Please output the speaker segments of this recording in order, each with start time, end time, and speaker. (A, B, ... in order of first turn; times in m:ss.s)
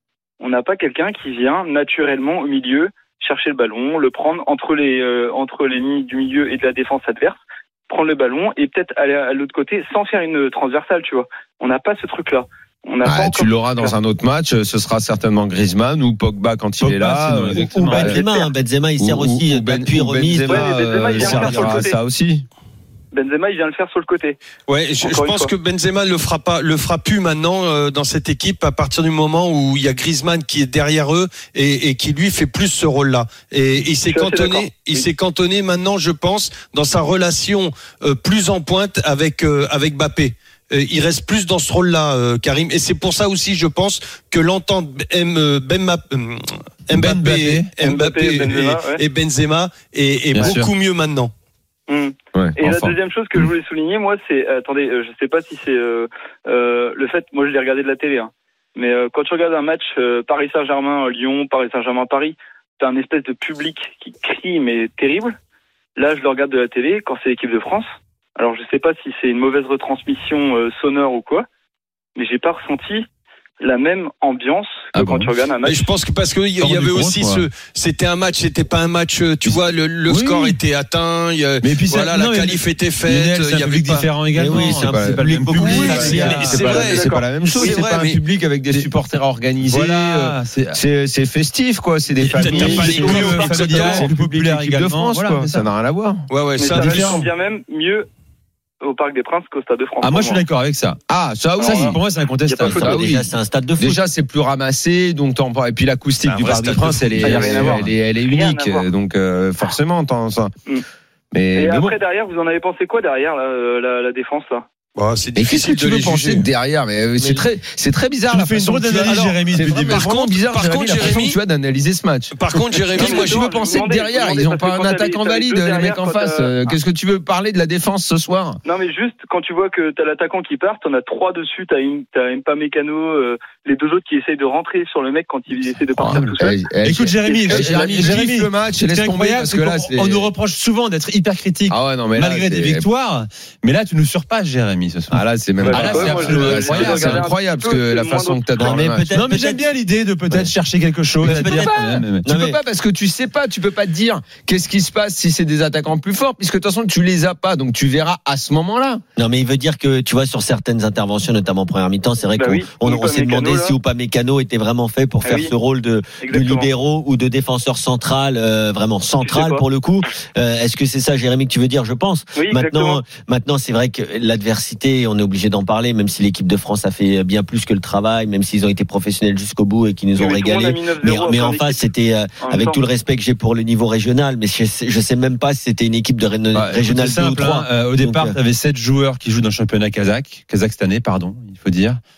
0:00.4-0:13.9 A
0:13.0-0:18.2 B
0:16.8-0:18.2 C
0:17.5-0:21.9 D
0:19.0-0:22.5 B
0:20.5-0:22.0 A
0:23.1-0:24.4 A
0:24.7-0:51.3 E
0:25.0-0:25.5 A
0:34.1-0:35.1 A
0:46.9-0:47.7 C
0:47.8-0:49.0 A
0:50.3-0:50.7 C
0:51.9-1:05.4 A
0:52.4-0:53.0 B
1:06.0-1:11.5 A
1:12.2-1:13.1 A
1:13.6-1:15.9 A
1:15.0-1:15.2 C
1:15.6-1:24.1 E
1:16.6-1:17.5 C
1:19.5-1:20.6 C
1:21.6-1:26.7 C
1:24.4-1:26.6 D
1:24.5-1:36.2 B
1:25.6-1:28.2 E
1:26.5-1:27.8 A
1:29.7-1:30.8 C
1:32.2-1:34.1 E
1:32.4-1:35.7 C
1:36.3-1:37.3 E
1:36.6-1:38.1 A
1:36.7-1:37.1 C
1:38.8-1:40.4 A
1:40.0-1:41.0 C
1:41.1-1:42.0 B
1:41.6-1:43.2 C
1:41.6-1:42.0 A
1:42.5-1:44.0 D
1:42.7-1:43.2 B
1:43.8-1:50.5 B
1:46.2-1:47.4 E
1:47.1-1:47.9 C
1:47.2-1:48.9 A
1:51.3-1:52.0 B
1:51.6-1:54.7 A
1:55.0-1:56.5 E
1:55.4-2:08.6 B
1:57.2-1:57.4 D
1:58.3-2:00.1 C
1:59.0-2:01.4 E
2:02.4-2:03.5 E
2:03.0-2:06.7 A
2:08.6-2:16.5 A
2:16.0-2:20.3 B
2:16.0-2:27.2 C
2:17.3-2:18.1 A
2:21.7-2:22.9 B
2:25.1-2:29.1 B
2:25.6-2:28.6 A
2:28.6-2:29.6 D
2:29.1-2:32.2 C
2:31.2-2:32.6 D
2:31.2-2:39.0 B
2:39.2-3:08.4 D
2:42.4-2:43.8 A
2:45.2-2:45.5 A
2:46.2-2:46.7 A
2:49.2-2:49.6 A
2:52.4-2:53.0 A
3:00.2-3:01.8 A
3:02.4-3:02.8 A
3:06.7-3:12.0 C